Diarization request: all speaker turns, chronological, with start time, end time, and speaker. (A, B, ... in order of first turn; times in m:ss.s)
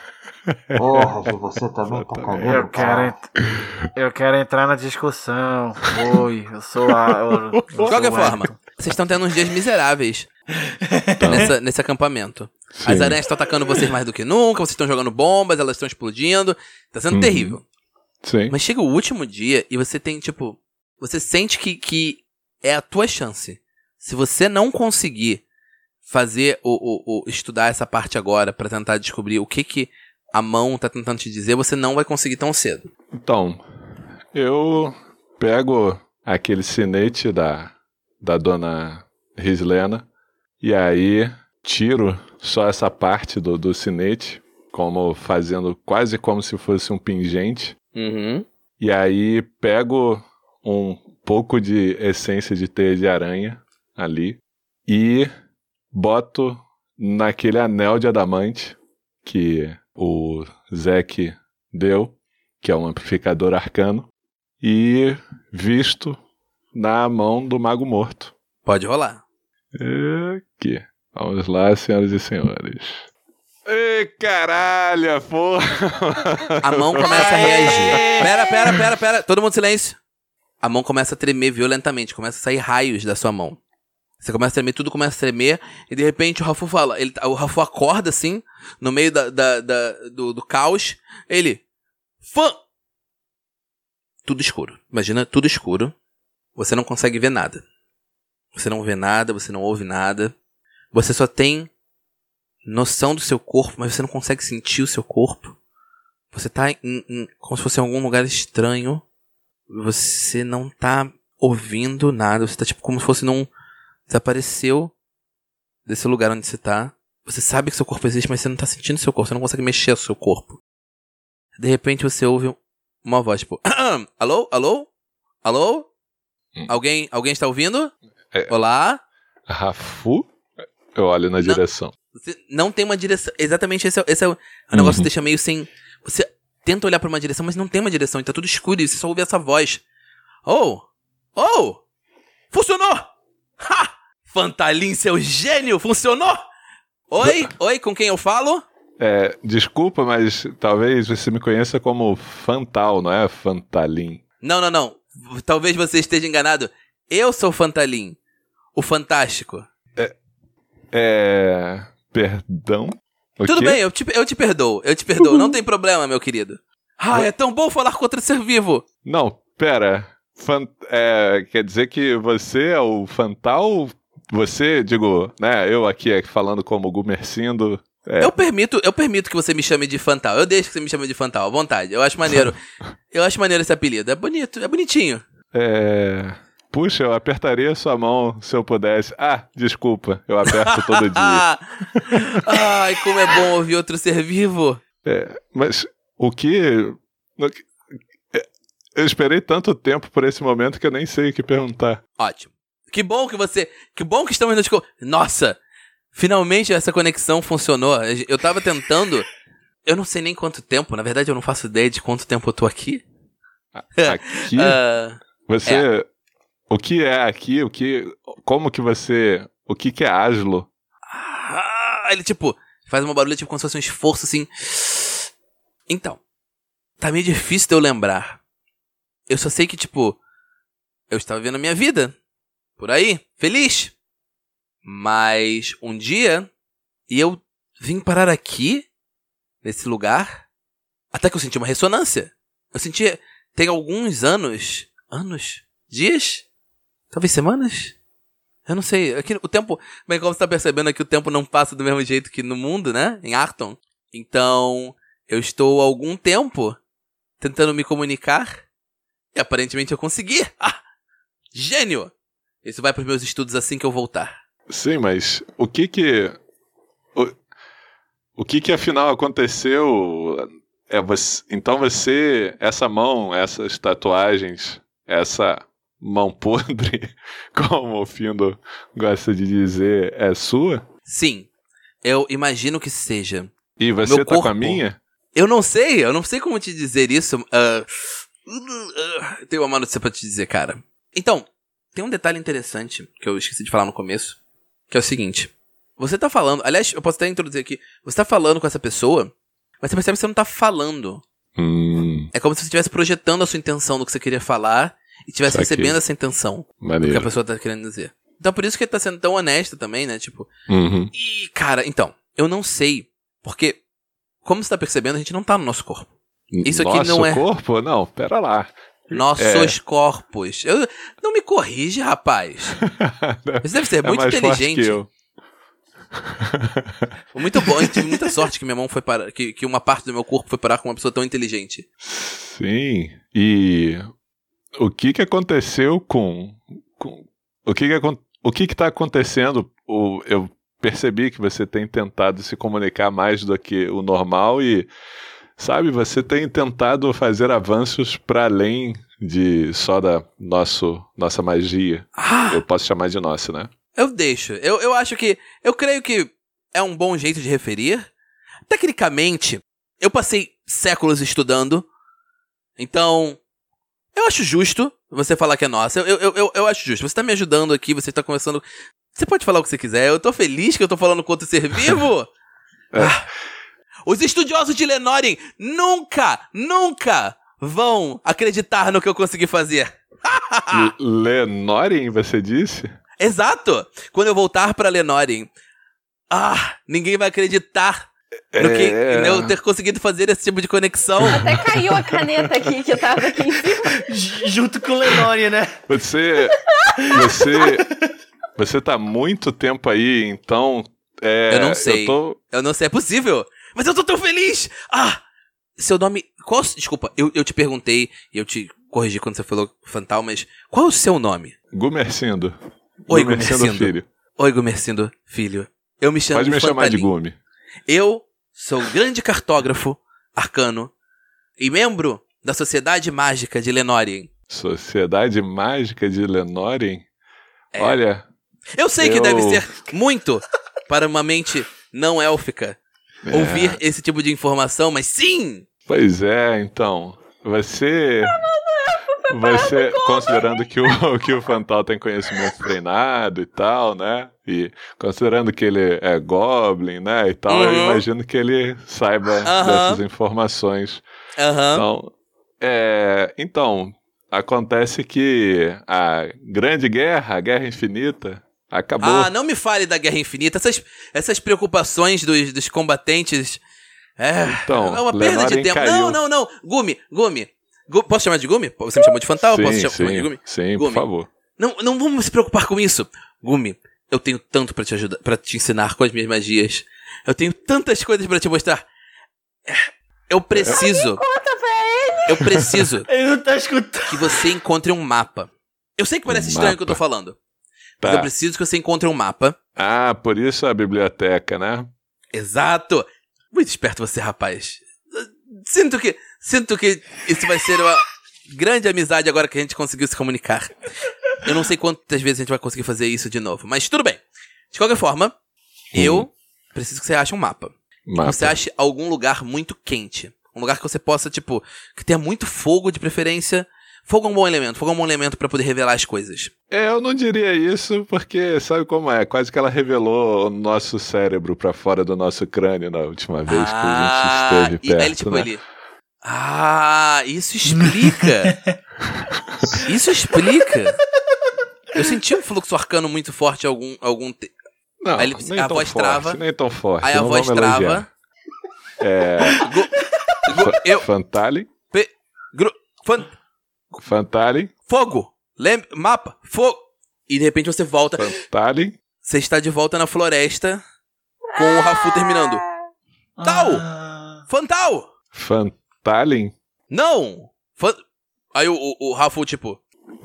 0:00.5-0:01.3 A
0:00.8-0:03.2 B
0:01.9-0:02.7 A
0:02.4-0:03.3 C
0:03.9-0:08.6 C
0:07.5-0:08.5 A
0:07.9-0:10.3 D
0:10.6-0:11.5 C
0:11.2-0:11.5 A
0:11.3-0:17.6 D
0:12.8-0:13.2 A
0:17.1-0:17.6 A
0:18.2-0:18.6 A
0:18.5-0:25.4 D
0:26.1-0:32.9 D
0:33.2-0:33.6 A
0:34.3-0:40.1 A
0:40.6-0:47.8 A
0:48.0-0:48.4 D
0:48.8-0:55.3 A
0:55.9-1:04.1 A
1:04.6-1:06.2 A
1:06.7-1:08.3 A
1:08.7-1:09.2 D
1:09.8-1:13.1 A
1:13.7-1:17.8 A
1:16.6-1:20.0 D
1:17.2-1:18.3 C
1:20.6-1:23.6 D
1:24.2-1:31.6 D
1:32.2-1:32.6 D
1:34.2-1:35.9 D
1:36.6-1:37.6 D
1:38.6-1:40.3 D
1:40.9-1:41.7 D
1:42.7-1:45.6 D
1:46.3-1:49.0 D
1:49.7-1:53.5 D
1:54.1-1:54.9 D
1:55.9-2:00.6 D
2:01.6-2:04.9 D
2:05.4-2:05.9 D
2:06.7-2:07.9 D
2:08.5-2:09.0 D
2:09.5-2:10.3 A
2:10.9-2:11.9 A
2:12.2-2:19.8 D
2:14.7-2:15.1 A
2:20.5-2:20.8 D
2:21.4-2:21.8 D
2:22.5-2:23.1 D
2:23.6-2:26.4 D
2:27.1-2:28.6 D
2:27.2-2:27.5 A
2:29.0-2:34.2 A
2:34.4-2:38.2 D
2:38.8-2:39.7 D
2:40.9-2:43.8 A
2:43.5-2:48.8 D
2:49.0-2:58.3 A
2:58.2-3:02.6 D
3:03.1-3:05.2 D
3:05.5-3:12.6 A
3:10.5-3:14.8 D
3:15.0-3:17.7 A
3:18.3-3:22.0 A
3:22.2-3:25.6 D
3:26.1-3:29.3 D
3:29.9-3:33.0 D
3:33.8-3:34.8 A
3:34.0-3:35.9 D
3:35.5-3:36.1 A
3:36.7-3:40.7 A
3:41.1-3:45.3 D
3:45.9-3:46.2 D
3:47.0-3:48.4 D
3:49.3-3:50.2 D
3:51.1-3:52.1 D
3:52.8-3:53.9 D
3:54.8-3:56.5 D
3:57.1-3:58.9 D
3:59.6-4:00.4 D
4:01.1-4:06.4 D
4:07.1-4:08.0 D
4:08.7-4:16.8 D
4:17.4-4:18.6 D
4:19.4-4:20.8 D
4:21.5-4:22.1 D
4:22.6-4:24.4 D
4:24.7-4:26.4 A
4:28.4-4:40.8 A
4:41.1-4:41.5 D
4:42.0-4:43.5 D
4:43.8-4:45.0 A
4:44.0-4:44.8 D
4:45.4-4:54.4 D
4:54.9-5:01.2 D
5:01.6-5:02.3 A
5:02.3-5:10.5 D
5:05.5-5:06.0 A
5:06.8-5:07.3 A
5:10.7-5:11.1 A
5:11.1-5:13.8 D
5:14.4-5:16.1 D
5:16.5-5:19.8 A
5:16.6-5:17.4 D
5:19.1-5:22.8 D
5:22.8-5:25.1 A
5:23.6-5:25.0 D
5:26.2-5:28.4 A
5:27.4-5:31.9 D
5:32.0-5:34.1 A
5:34.8-5:44.9 A
5:45.6-5:53.7 A
5:52.2-5:52.6 D
5:54.0-5:58.1 D
5:58.7-6:01.9 D
6:02.8-6:03.4 D
6:04.2-6:08.6 D
6:09.2-6:12.3 D
6:13.0-6:13.3 D
6:14.1-6:20.9 D
6:20.7-6:22.9 A
6:23.2-6:25.5 D
6:26.3-6:31.6 D
6:28.5-6:29.5 A
6:31.2-6:31.6 A
6:31.3-6:34.1 E
6:33.9-6:35.8 C
6:35.9-6:36.6 A
6:37.0-6:37.8 C
6:37.1-6:37.8 A
6:38.6-6:42.4 A
6:41.5-6:45.2 D
6:45.8-6:51.6 D
6:51.7-6:52.5 A
6:53.1-6:54.0 A
6:53.1-6:57.1 D
6:56.3-6:57.4 A
6:57.9-7:00.9 D
7:01.6-7:04.3 D
7:04.5-7:07.0 A
7:07.8-7:08.3 A
7:08.8-7:12.8 D
7:09.0-7:09.6 A
7:13.3-7:13.8 A
7:13.3-7:15.6 D
7:15.9-7:18.4 A
7:18.2-7:20.7 E
7:19.3-7:31.0 A
7:27.5-7:28.0 D
7:29.4-7:30.0 D
7:31.4-7:31.8 D
7:31.8-7:39.3 A
7:39.0-7:43.6 D
7:44.2-7:51.1 D
7:44.4-7:46.2 A
7:49.4-7:51.3 A
7:51.6-7:58.8 D
7:59.7-8:01.2 D
8:00.5-8:00.8 A
8:00.7-8:02.7 E
8:02.3-8:03.1 D
8:03.1-8:04.4 C
8:04.1-8:07.4 D
8:06.3-8:07.0 A
8:08.0-8:08.3 A
8:08.0-8:09.6 D
8:09.8-8:11.9 A
8:12.3-8:24.2 D
8:24.7-8:25.3 D
8:25.9-8:36.5 D
8:25.9-8:26.3 A
8:28.1-8:28.6 A
8:36.7-8:45.5 A
8:43.5-8:45.6 D
8:46.2-8:48.6 D
8:48.2-8:48.7 C
8:49.8-8:51.0 D
8:51.9-8:54.5 D
8:55.0-8:58.1 A
8:55.2-8:56.4 D
8:57.0-8:58.1 D
8:59.0-8:59.7 A
8:59.6-9:01.1 D
9:00.5-9:01.7 A
9:01.9-9:03.4 D
9:04.0-9:04.7 A
9:04.9-9:08.3 D
9:08.2-9:09.0 A
9:09.2-9:10.8 D
9:11.5-9:12.8 E
9:11.6-9:12.6 D
9:13.4-9:14.4 C
9:13.4-9:13.9 D
9:14.5-9:15.1 D
9:15.3-9:16.5 A
9:16.9-9:18.0 D
9:18.5-9:19.8 D